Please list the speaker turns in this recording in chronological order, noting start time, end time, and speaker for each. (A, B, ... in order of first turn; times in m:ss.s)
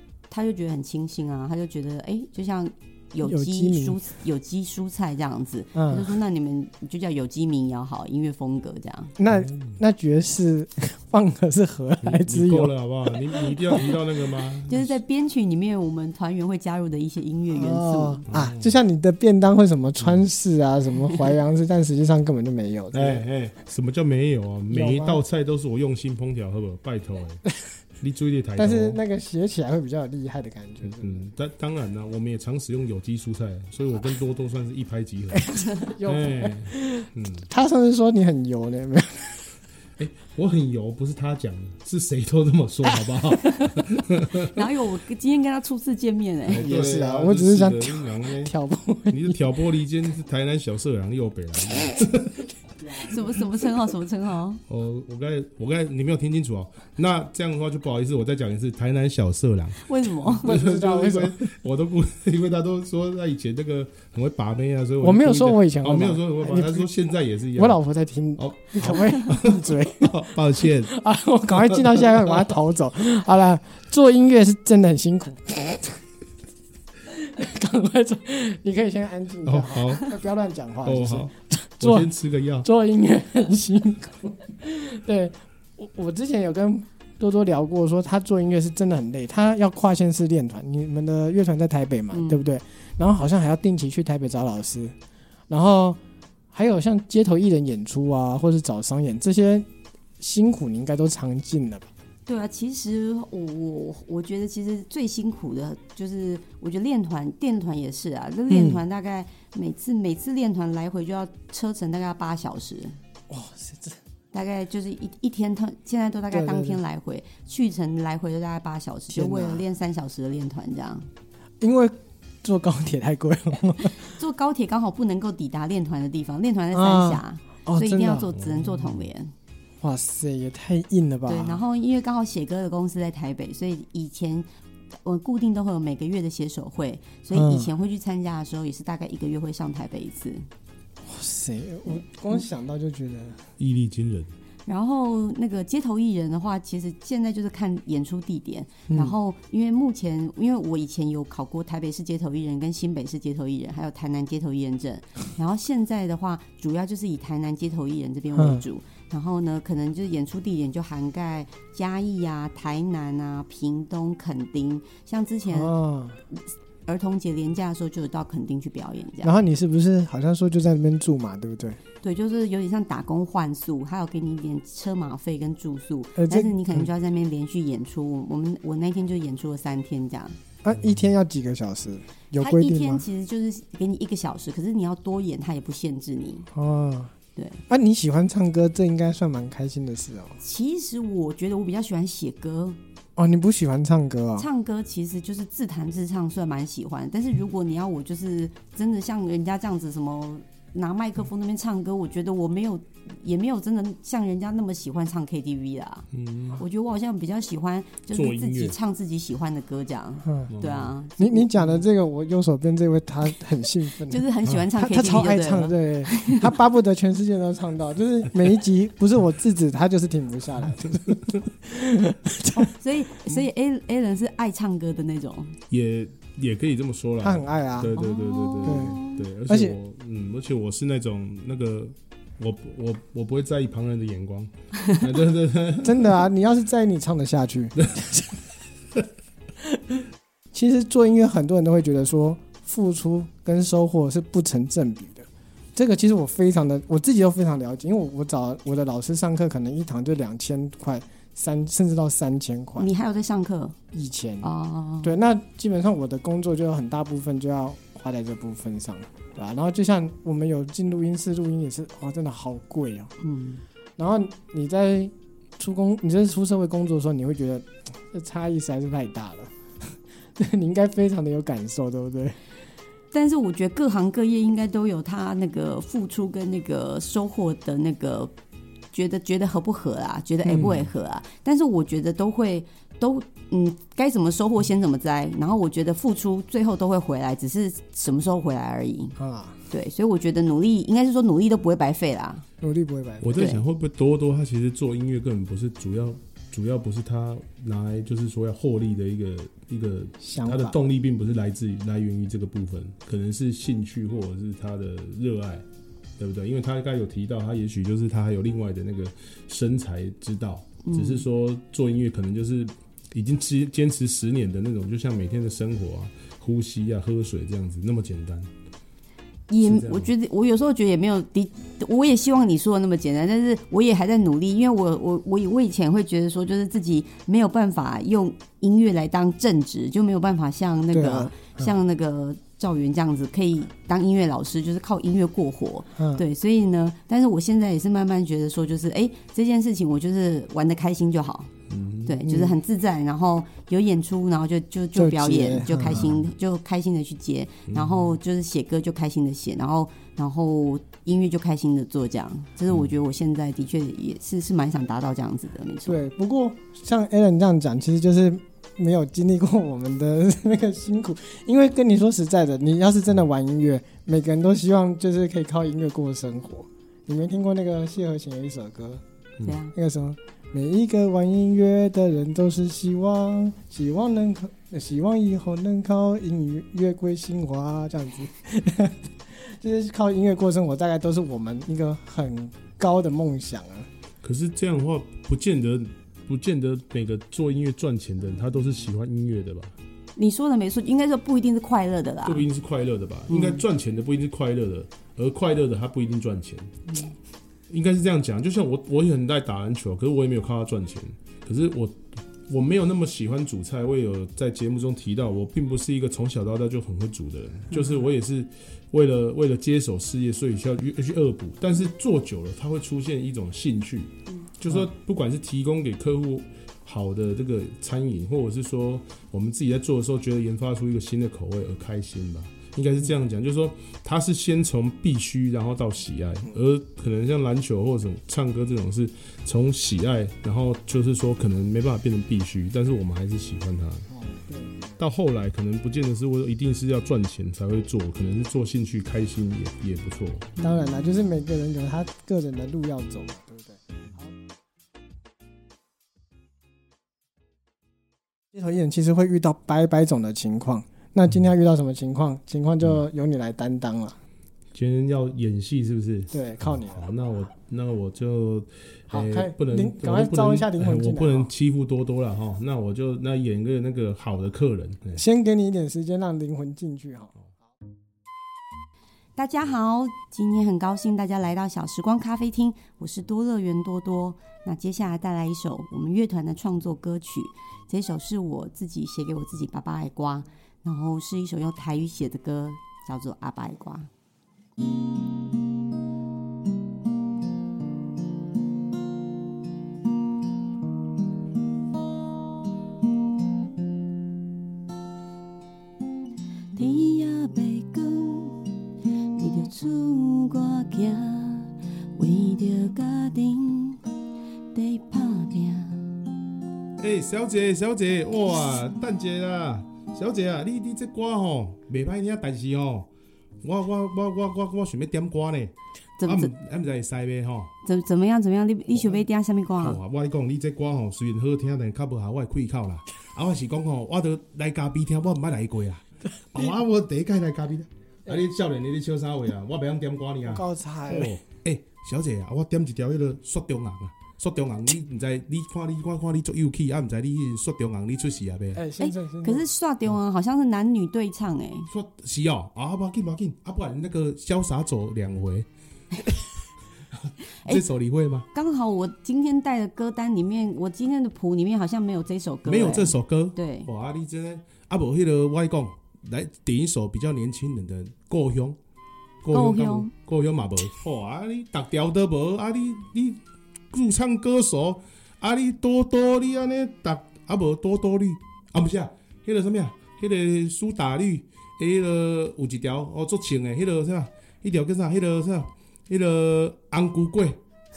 0:00.3-0:09.1 A
0:03.2-0:04.0 B
0:05.7-0:06.2 B
0:09.2-0:14.0 B
0:09.3-0:09.7 C
0:12.0-0:14.9 C
0:14.7-0:18.2 A
0:17.5-0:23.2 B
0:18.3-0:18.7 C
0:22.9-0:27.5 C
0:24.7-0:25.2 B
0:28.0-0:29.0 C
0:28.6-0:31.3 B
0:30.8-0:37.5 C
0:35.3-0:39.5 B
0:40.0-0:44.6 C
0:44.3-0:46.6 A
0:46.5-0:48.5 C
0:46.6-0:49.4 B
0:49.1-0:52.4 C
0:52.9-0:54.6 A
0:54.7-1:07.8 C
0:59.8-1:00.5 A
1:00.4-1:01.4 B
1:05.0-1:06.9 B
1:07.5-1:16.0 B
1:08.4-1:10.9 C
1:11.7-1:12.5 C
1:17.1-1:22.1 B
1:19.4-1:20.2 C
1:20.8-1:22.7 C
1:22.6-1:34.9 B
1:32.1-1:32.4 A
1:35.5-1:36.0 B
1:36.5-1:39.7 B
1:40.2-1:41.9 B
1:42.2-1:53.0 A
1:48.5-1:48.8 B
1:53.3-1:54.0 B
1:54.3-2:01.1 A
1:56.3-1:56.8 B
1:59.1-1:59.6 B
2:01.6-2:04.1 B
2:04.0-2:09.3 A
2:06.7-2:08.3 B
2:08.4-2:09.0 C
2:09.8-2:11.6 B
2:11.3-2:14.5 A
2:15.0-2:20.5 A
2:17.3-2:17.7 B
2:21.0-2:23.4 B
2:23.6-2:24.3 C
2:24.6-2:45.7 A
2:28.9-2:29.1 B
2:38.3-2:38.6 B
2:45.5-2:46.2 B
2:46.3-2:49.4 A
2:49.2-2:51.8 B
2:52.0-3:00.4 A
2:56.2-2:56.8 B
3:00.6-3:03.0 B
3:02.4-3:06.5 A
3:06.5-3:07.1 B
3:07.4-3:07.6 A
3:07.7-3:10.4 B
3:10.4-3:12.8 A
3:13.2-3:14.5 B
3:14.4-3:31.6 A
3:26.1-3:26.6 C
3:28.1-3:28.7 C
3:30.2-3:30.5 B
3:30.5-3:30.9 C
3:31.2-3:42.7 B
3:34.1-3:36.6 A
3:42.5-3:45.6 A
3:45.7-3:56.2 C
3:47.2-3:48.0 B
3:47.9-3:49.2 A
3:48.6-3:49.8 B
3:55.8-3:58.4 B
3:59.6-4:00.0 B
4:00.5-4:12.9 B
4:12.8-4:13.8 A
4:13.9-4:14.5 B
4:14.4-4:15.1 A
4:15.0-4:23.1 B
4:23.2-4:23.6 A
4:24.0-4:32.4 B
4:33.1-4:38.3 A
4:38.9-4:49.2 A
4:49.2-4:49.6 B
4:49.7-4:52.4 A
4:52.6-4:53.4 B
4:53.2-5:05.6 C
4:53.3-4:53.6 A
5:00.2-5:00.8 B
5:06.2-5:18.5 C
5:10.8-5:11.2 A
5:19.5-5:41.5 A
5:19.6-5:20.1 C
5:30.9-5:31.7 B
5:36.0-5:36.2 B
5:41.7-5:42.2 C
5:42.0-5:56.0 A
5:42.2-5:42.6 B
5:44.9-5:46.1 B
5:47.7-5:48.2 C
5:55.8-6:09.0 B
6:09.4-6:09.7 A
6:09.7-6:23.9 B
6:24.2-6:29.8 C
6:30.2-6:32.5 A
6:32.2-6:36.7 C
6:33.3-6:33.6 A
6:36.9-6:37.1 A
6:37.7-7:14.1 C
7:14.1-7:15.0 B
7:15.0-7:20.5 C
7:20.6-7:24.3 B
7:28.5-7:34.2 B
7:34.7-7:45.2 C
7:36.3-7:37.1 B
7:39.1-7:41.5 B
7:45.2-7:47.3 B
7:49.4-8:04.1 A
8:16.7-8:18.7 A
8:19.3-8:24.0 A
8:24.7-8:26.2 A
8:27.0-8:33.1 C
8:33.6-8:37.7 C
8:36.2-8:36.5 A
8:37.8-8:40.0 A
8:39.8-8:58.8 C
8:50.4-8:51.3 B
8:58.7-8:59.6 B
8:59.0-9:01.9 A
9:01.9-9:05.7 C
9:07.1-9:08.5 C
9:08.5-9:13.9 A
9:12.6-9:18.8 C
9:19.4-9:37.6 C
9:19.5-9:20.1 A